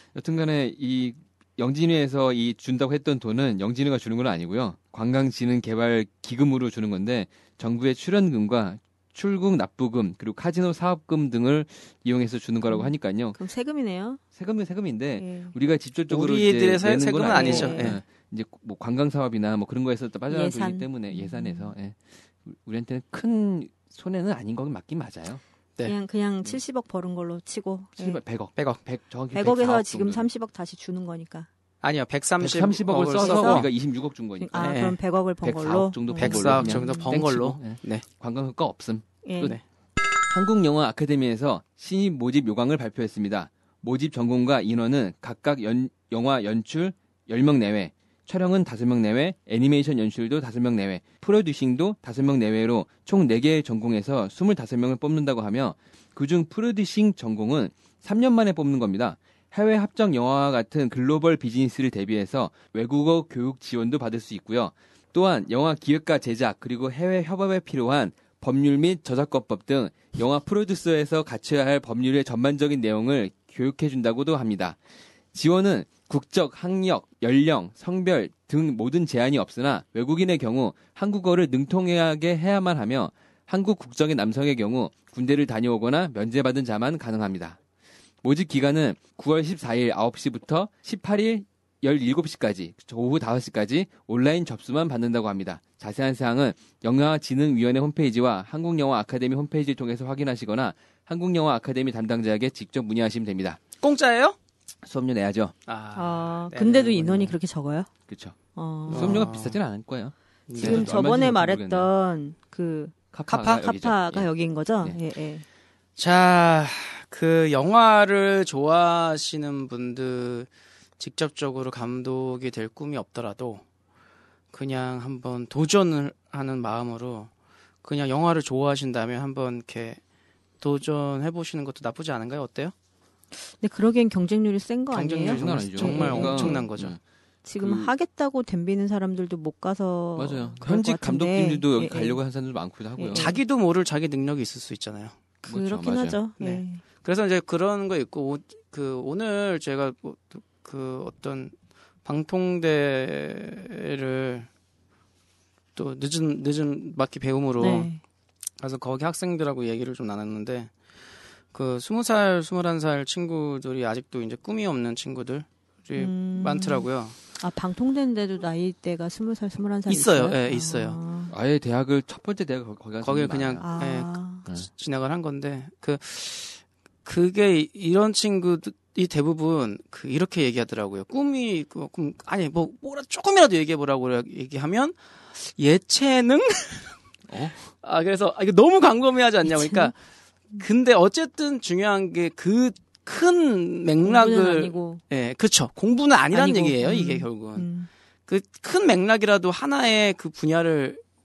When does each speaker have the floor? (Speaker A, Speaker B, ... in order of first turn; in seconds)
Speaker A: 0.1-13.4, 14.3-25.4, 28.0-30.3, 32.4-34.7, 35.4-39.6, 40.3-74.8, 75.3-87.6, 88.2-103.6, 104.8-105.5, 108.1-108.4, 108.9-111.9, 113.1-114.3, 135.2-137.0, 137.6-137.9, 140.2-143.3, 145.5-146.2, 171.3-173.7, 187.3-187.7
Speaker B: 12.6-14.2, 15.2-15.5, 17.2-18.0, 20.3-21.7, 25.8-28.2, 29.3-31.5, 33.1-33.7, 34.4-37.2, 39.2-39.6, 105.9-107.9, 108.5-109.3, 110.5-115.5, 133.4-136.7, 137.4-142.2, 143.0-143.4, 145.4-146.8, 157.6-158.0, 165.9-171.3, 173.6-174.4, 189.4-189.9, 194.0-195.0, 196.3-197.9
Speaker C: 16.1-18.0, 28.6-28.8, 31.8-33.7, 34.6-35.0, 36.2-38.0, 103.8-104.4, 105.7-107.4, 108.9-109.6, 110.5-111.0, 116.0-123.6, 124.5-127.3, 127.8-130.0, 130.6-132.7, 134.9-137.0, 143.2-145.4, 146.4-151.5, 152.1-154.5, 155.8-157.9, 158.6-160.7, 161.5-167.2, 169.9-171.0, 173.0-187.0, 187.7-189.9, 190.6-197.7, 198.3-201.0